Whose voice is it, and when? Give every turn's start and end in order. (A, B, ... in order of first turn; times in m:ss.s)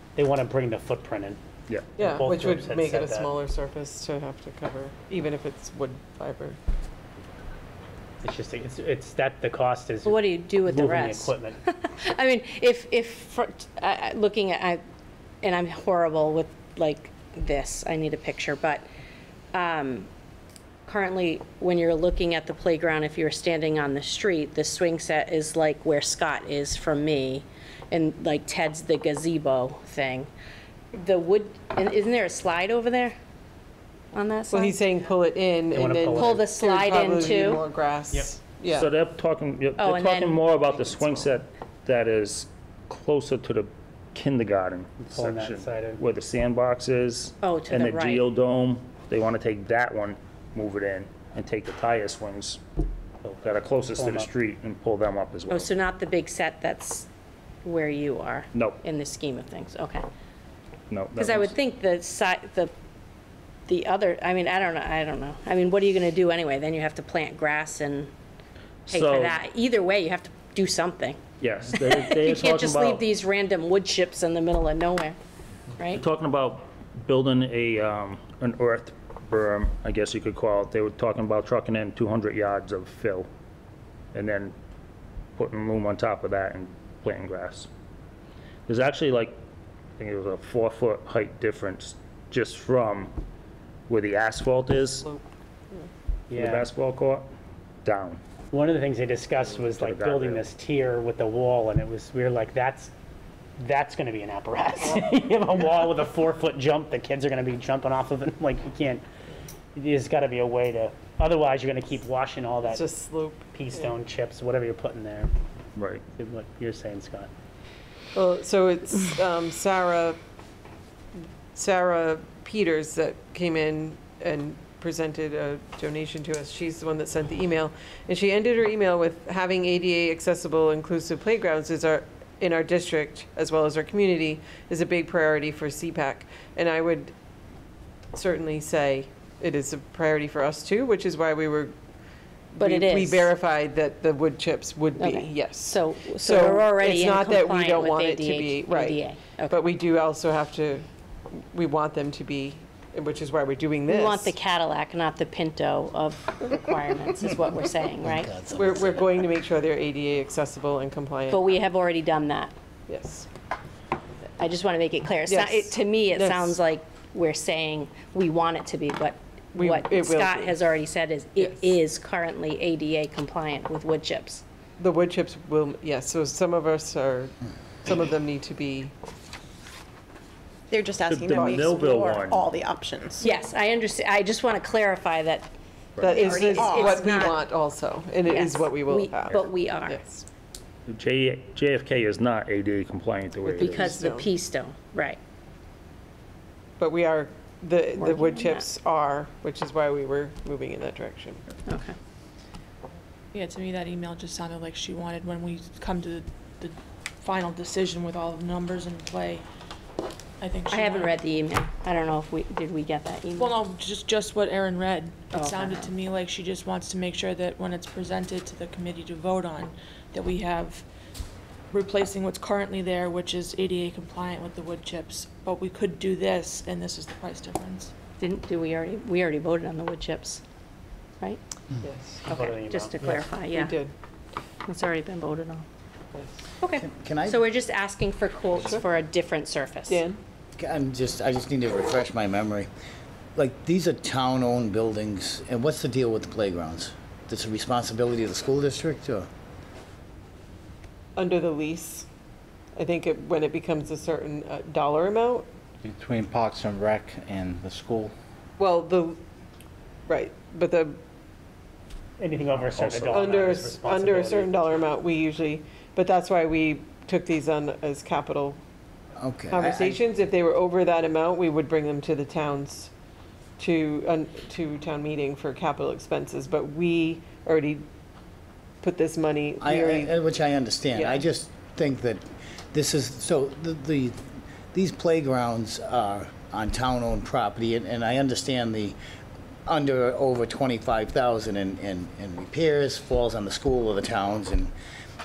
0:00.2-0:01.4 A
0:02.0-0:03.3 A
0:02.0-0:06.6 B
0:08.2-0:11.6 A
0:10.0-0:14.8 C
0:15.4-0:18.8 C
0:19.5-0:20.1 C
0:20.9-0:30.3 C
0:31.0-0:33.1 C
0:34.1-0:34.8 C
0:34.5-0:38.9 B
0:35.7-0:36.4 A
0:36.1-0:37.6 C
0:38.7-0:52.6 D
0:39.8-0:40.4 C
0:45.0-0:46.0 A
0:47.4-0:48.2 C
0:53.2-0:54.3 A
0:53.4-0:55.7 D
0:55.5-0:57.1 C
0:57.6-1:00.1 C
0:58.5-0:58.8 D
1:00.9-1:01.5 D
1:01.2-1:02.7 C
1:03.7-1:08.1 C
1:08.9-1:09.4 D
1:08.9-1:11.2 C
1:11.4-1:13.0 D
1:11.7-1:15.2 C
1:15.8-1:16.0 C
1:15.9-1:23.3 D
1:24.1-1:24.6 D
1:25.4-1:27.7 D
1:28.7-1:29.4 D
1:30.0-1:33.1 D
1:33.9-1:35.1 D
1:36.3-1:36.7 A
1:36.3-1:37.3 D
1:37.8-1:38.2 D
1:38.5-1:42.9 A
1:39.4-1:40.4 D
1:43.6-1:49.0 A
1:49.7-1:52.9 A
1:52.6-1:53.9 B
1:53.5-1:55.3 A
1:55.8-1:56.0 D
1:56.2-1:57.3 A
1:58.1-2:00.2 B
2:01.5-2:17.1 B
2:18.1-2:21.7 B
2:22.5-2:30.8 B
2:22.6-2:23.3 C
2:25.0-2:29.6 C
2:31.4-2:34.3 B
2:33.9-2:38.3 C
2:38.0-2:39.0 E
2:38.5-2:41.5 B
2:41.3-2:42.5 C
2:42.9-2:43.3 B
2:44.4-2:54.4 C
2:45.3-2:46.6 B
2:49.6-2:50.7 B
2:51.4-2:51.8 B
2:54.8-2:58.9 B
3:00.7-3:03.3 F
3:01.1-3:02.4 D
3:03.2-3:05.5 C
3:06.0-3:06.3 D
3:06.0-3:10.2 B
3:06.0-3:07.5 F
3:06.1-3:07.3 C
3:08.3-3:10.0 C
3:10.9-3:14.0 D
3:13.4-3:14.3 B
3:13.6-3:15.2 C
3:16.8-3:21.4 B
3:18.0-3:18.6 C
3:21.7-3:22.0 C
3:23.3-3:29.4 G
3:30.4-3:31.2 G
3:30.7-3:33.6 C
3:33.4-3:40.8 G
3:35.3-3:35.9 C
3:41.7-3:47.9 G
3:48.2-3:50.4 C
3:51.8-3:52.3 B
3:52.2-3:53.2 A
3:52.3-3:53.8 C
3:53.0-3:53.9 B
3:54.7-3:55.6 C
3:56.6-4:00.0 C
3:56.8-3:57.4 E
3:59.9-4:00.2 B
4:00.6-4:02.7 E
4:03.4-4:09.3 E
4:11.2-4:12.1 B
4:12.8-4:15.5 B
4:15.8-4:18.1 H
4:18.6-4:19.2 B
4:20.1-4:21.0 B
4:22.2-4:25.0 A
4:22.9-4:28.6 B
4:29.2-4:30.0 E
4:29.5-4:32.9 B
4:33.6-4:37.9 B
4:38.8-4:40.2 B
4:39.6-4:44.2 E
4:40.9-4:41.2 B
4:44.7-4:49.0 E
4:49.7-4:54.7 E